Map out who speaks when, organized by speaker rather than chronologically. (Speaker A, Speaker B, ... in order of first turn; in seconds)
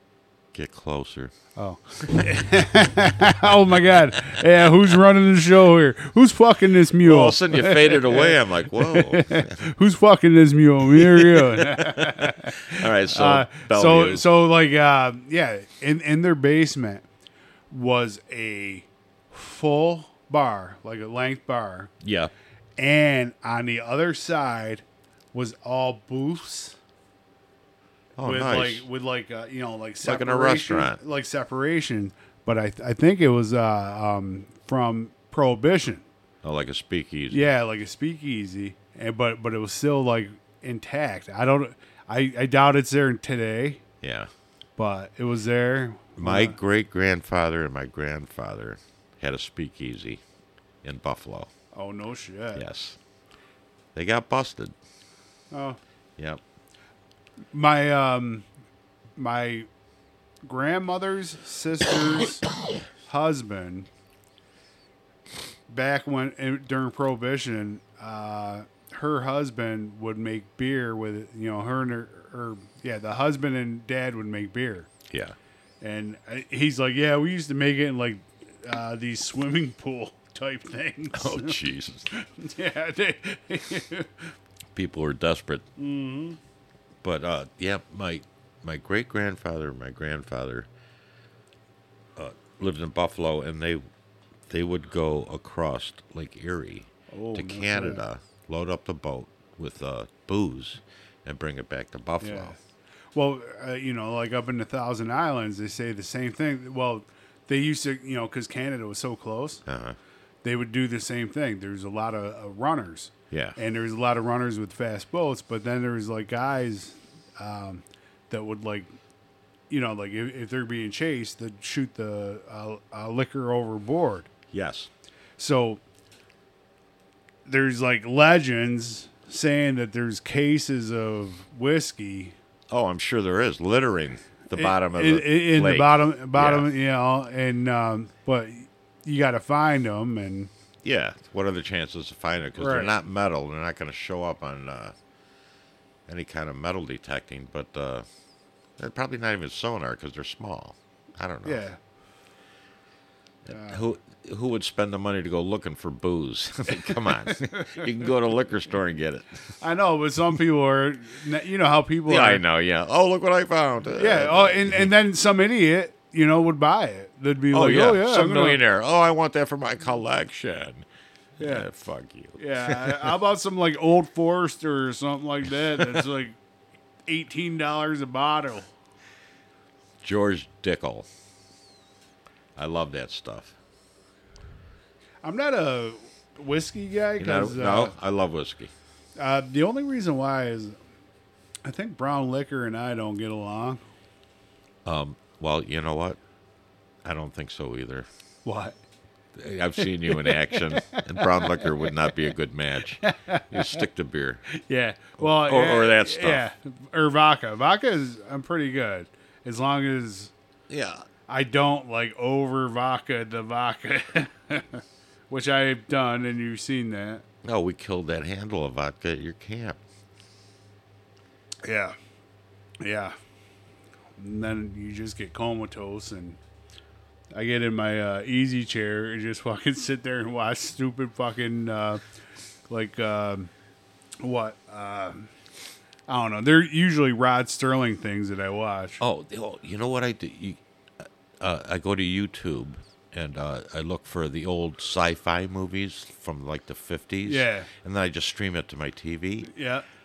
Speaker A: 0.5-1.3, 7.0-9.6, 10.9-14.2, 22.0-22.3, 28.2-28.9, 30.0-31.0, 36.4-37.4, 44.0-44.3, 46.2-50.2, 50.8-51.5, 52.5-53.0, 54.0-54.7, 75.1-75.4, 81.1-82.1, 84.8-85.7, 87.0-90.7, 92.2-93.8, 94.5-102.5, 109.7-110.0, 113.3-113.6, 124.5-124.9, 132.7-136.7, 140.8-144.9, 146.1-148.1, 148.8-151.6, 153.5-159.4, 162.1-164.9, 167.5-170.9, 171.4-173.1, 175.8-176.0, 180.0-181.1, 182.6-183.6, 187.2-188.7, 194.8-196.2, 197.0-198.1, 199.3-204.4, 205.2-206.4, 210.7-211.1, 217.4-219.8, 239.0-249.5
Speaker B: 1.6-17.1, 17.7-21.9, 22.8-26.8, 28.2-36.1, 37.3-43.8, 44.8-46.6, 51.7-52.6, 55.5-55.8, 57.5-58.5, 59.2-59.7, 60.4-62.5, 63.1-63.9, 65.7-74.9, 75.8-81.6, 82.1-84.3, 85.8-86.4, 97.1-98.0, 102.2-102.6, 103.1-109.6, 110.4-118.9, 119.7-124.3, 125.4-125.8, 127.5-132.3, 134.5-140.5, 142.6-142.9, 151.4-151.8, 153.5-153.8, 156.8-158.1, 159.6-162.4, 164.0-168.6, 171.4-171.7, 172.4-176.4, 177.1-178.7, 185.2-187.9, 189.2-190.8, 191.7-193.8, 198.4-198.8, 199.8-202.3, 203.0-203.8, 204.5-210.3, 211.3-217.2, 221.7-221.9, 222.8-223.1, 224.2-226.4, 227.3-232.0, 232.7-233.5, 234.2-235.3, 236.1-239.0, 247.3-247.7, 249.4-249.8